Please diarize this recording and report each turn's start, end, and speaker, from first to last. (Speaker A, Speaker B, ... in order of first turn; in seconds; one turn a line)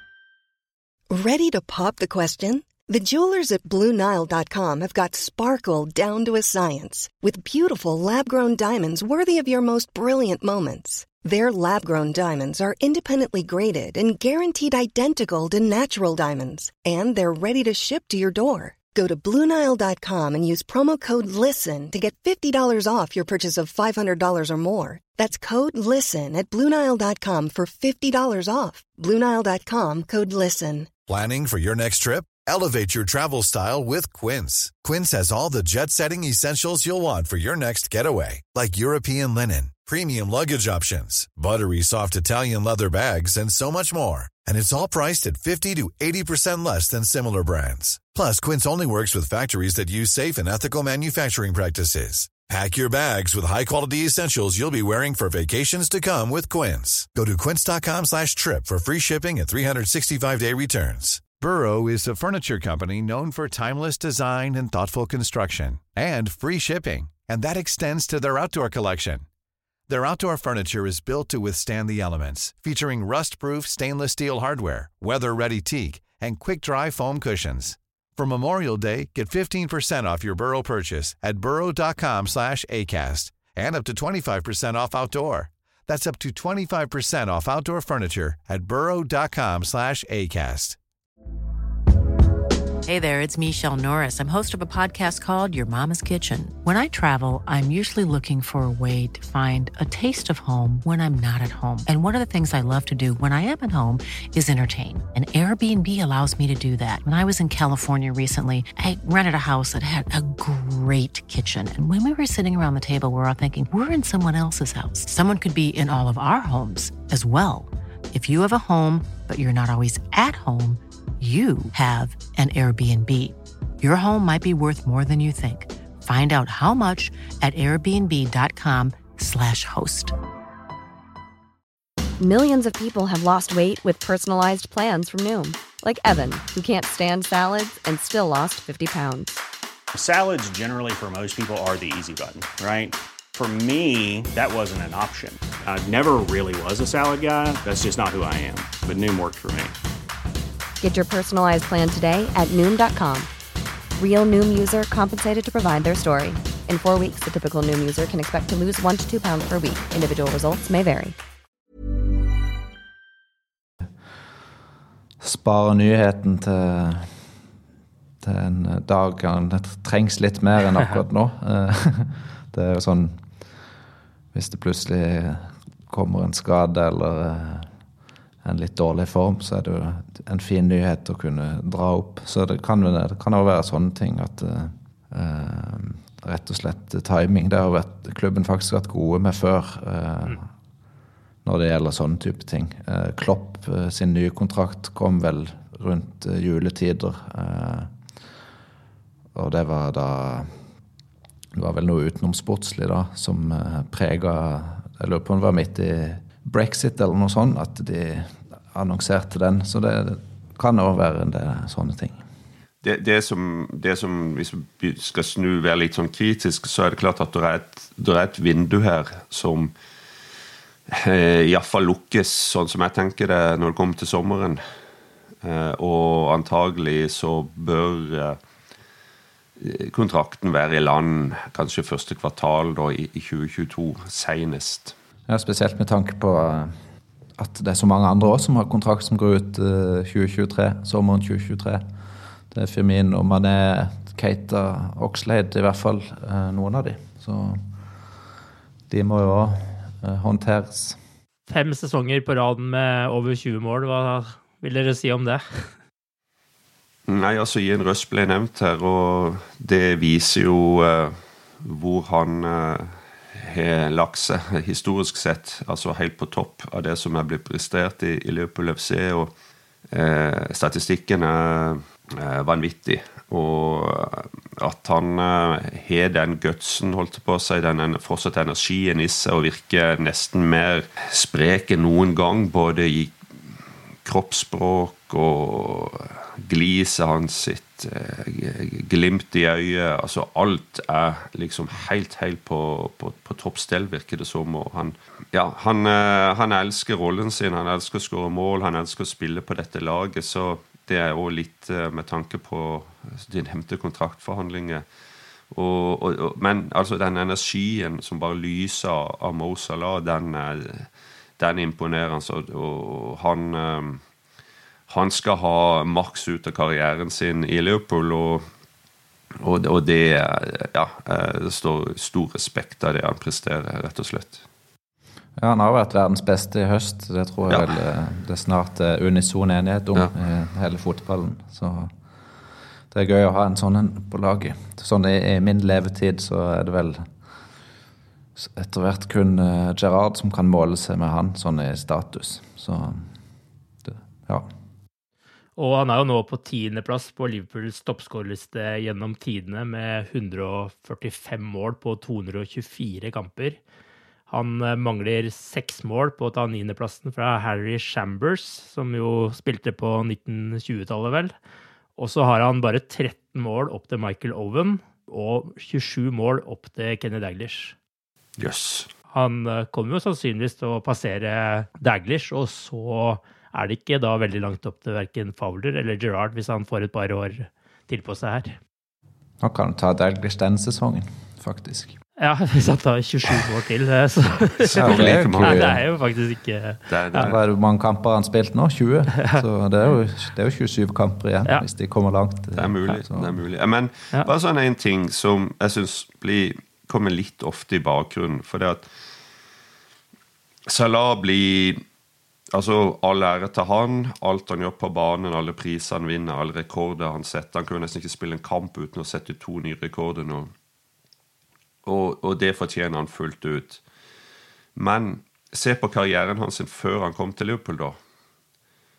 Speaker A: 1.1-30.9
Speaker B: 31.1-69.2
Speaker B: 69.9-90.8
Speaker C: 92.9-130.2
Speaker D: 132.2-139.4
Speaker E: 139.9-149.7
Speaker D: 150.8-153.3
Speaker D: 154.0-161.2
Speaker F: 165.2-167.2
Speaker F: 168.2-173.2
Speaker F: 174.3-177.7
Speaker F: 178.4-190.4
Speaker F: 191.4-197.9
Speaker F: 199.3-200.5
Speaker F: 201.6-212.2
Speaker G: 212.8-219.7
Speaker G: 220.9-224.6
Speaker G: 225.4-228.4
Speaker G: 229.6-234.9
Speaker F: 235.3-236.7
Speaker F: 237.4-241.8
Speaker F: 242.5-247.7
Speaker F: 248.9-251.0
Speaker H: 251.5-255.7
Speaker G: 257.1-269.3
Speaker G: 269.9-283.1
Speaker G: 284.1-304.9
Speaker G: 305.5-314.0
Speaker G: 314.9-318.4
Speaker G: 319.4-324.4
Speaker F: 325.4-331.9
Speaker G: 327.5-327.8
Speaker F: 332.9-337.1
Speaker F: 338.4-343.1
Speaker F: 343.8-344.5
Speaker H: 345.6-353.6
Speaker H: 354.3-361.3
Speaker H: 362.0-367.8
Speaker G: 368.4-368.9
Speaker H: 369.1-378.6
Speaker F: 379.4-381.9
Speaker H: 382.2-387.3
Speaker G: 384.7-385.8
Speaker F: 384.7-385.8
Speaker G: 386.9-387.4
Speaker F: 387.1-393.4
Speaker G: 392.5-398.9
Speaker G: 400.7-401.8
Speaker G: 402.5-410.5
Speaker G: 411.9-413.8
Speaker G: 414.8-418.0